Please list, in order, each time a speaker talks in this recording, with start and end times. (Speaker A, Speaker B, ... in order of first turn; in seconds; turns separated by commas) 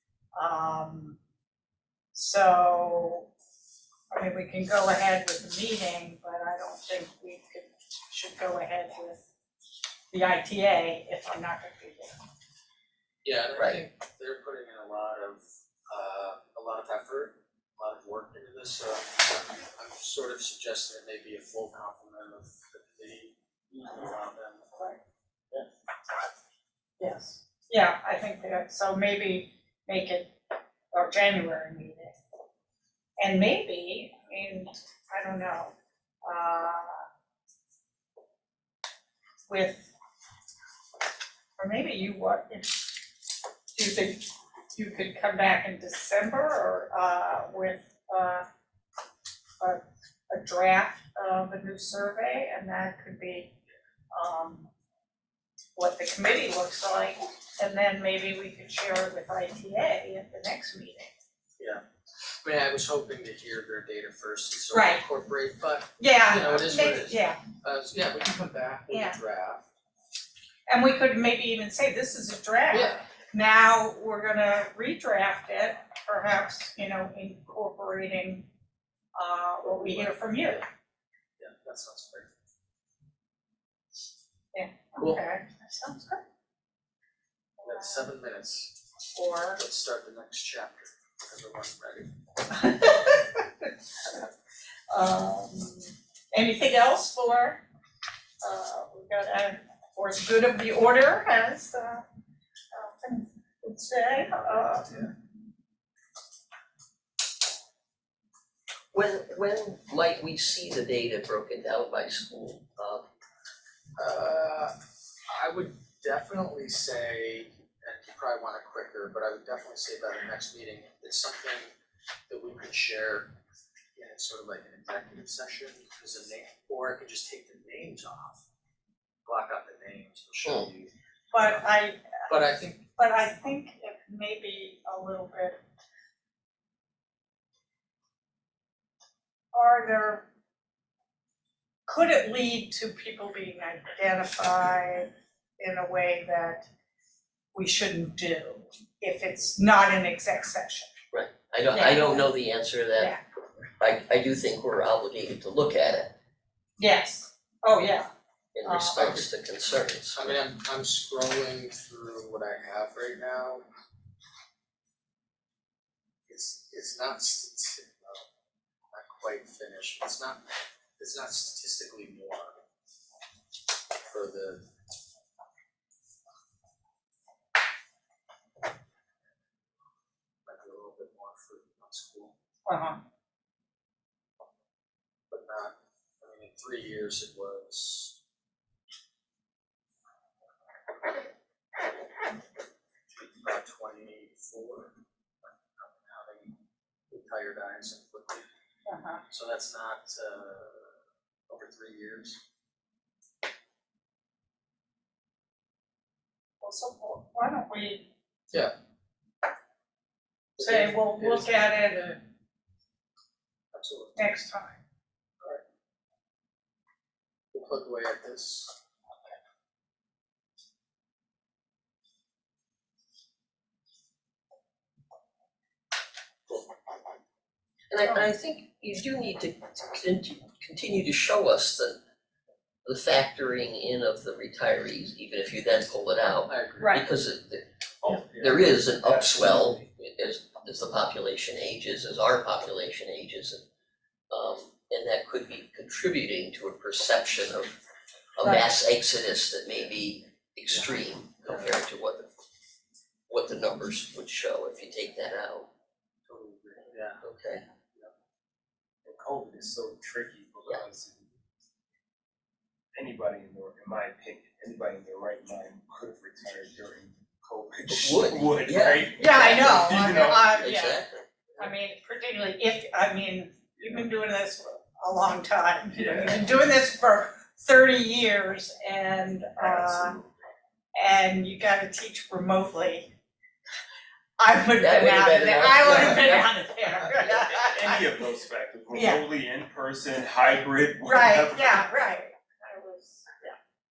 Speaker A: 0.3-1.2, Speaker A: 2.1-3.3, Speaker A: 4.1-9.2, Speaker A: 10.1-12.2, Speaker B: 13.2-24.7, Speaker C: 13.6-13.8, Speaker A: 27.0-30.3, Speaker A: 30.9-32.1, Speaker A: 33.2-37.0, Speaker A: 39.5-39.9, Speaker A: 41.6-42.9, Speaker A: 43.7-48.4, Speaker A: 49.6-53.5, Speaker A: 54.1-54.7, Speaker A: 55.8-61.1, Speaker B: 62.4-69.6, Speaker A: 64.7-65.0, Speaker A: 66.0-67.4, Speaker A: 68.9-69.2, Speaker A: 70.7-78.5, Speaker B: 72.7-73.0, Speaker A: 79.1-80.6, Speaker B: 79.7-80.6, Speaker B: 81.4-82.3, Speaker A: 84.5-86.2, Speaker A: 87.6-88.0, Speaker B: 87.6-88.7, Speaker A: 89.1-89.6, Speaker B: 89.5-92.1, Speaker A: 92.5-94.1, Speaker A: 94.9-97.6, Speaker A: 98.4-102.0, Speaker A: 102.7-105.1, Speaker C: 108.9-113.0, Speaker B: 114.0-114.7, Speaker B: 115.3-121.7, Speaker B: 122.3-123.3, Speaker B: 124.0-128.4, Speaker B: 129.2-131.6, Speaker A: 131.3-132.2, Speaker B: 132.3-132.8, Speaker A: 132.9-135.6, Speaker A: 139.5-140.3, Speaker A: 141.8-146.7, Speaker A: 147.5-150.9, Speaker C: 151.1-153.1, Speaker A: 151.7-152.3, Speaker C: 153.8-156.1, Speaker A: 156.8-158.1, Speaker C: 158.5-160.3, Speaker A: 158.6-159.2, Speaker B: 160.1-163.6, Speaker B: 166.3-168.2, Speaker B: 168.9-170.4, Speaker B: 171.0-172.6, Speaker B: 174.1-174.6, Speaker B: 180.4-182.3, Speaker A: 182.7-183.0, Speaker B: 185.3-188.1, Speaker B: 193.1-194.9, Speaker B: 195.8-196.5, Speaker B: 197.1-198.4, Speaker A: 198.8-199.2, Speaker B: 199.3-201.0, Speaker B: 201.5-202.4, Speaker A: 206.6-208.1, Speaker B: 210.6-211.8, Speaker A: 210.6-212.2, Speaker B: 213.7-214.2, Speaker A: 214.2-214.8, Speaker B: 217.5-218.7, Speaker C: 227.9-232.0, Speaker A: 228.0-228.3, Speaker C: 232.8-243.6, Speaker B: 236.5-237.0, Speaker D: 238.0-239.9, Speaker C: 244.3-247.8, Speaker C: 248.3-252.3, Speaker A: 248.4-248.7, Speaker B: 251.5-251.7, Speaker C: 253.3-255.7, Speaker B: 256.3-257.2, Speaker C: 257.2-257.6, Speaker D: 259.0-261.2, Speaker D: 262.9-270.7, Speaker C: 267.9-271.2, Speaker A: 269.1-271.0, Speaker A: 271.6-280.2, Speaker D: 275.9-276.7, Speaker D: 279.6-280.3, Speaker A: 280.9-283.1, Speaker A: 284.4-288.2, Speaker C: 284.8-286.5, Speaker D: 287.4-291.9, Speaker A: 288.9-289.2, Speaker A: 291.0-293.6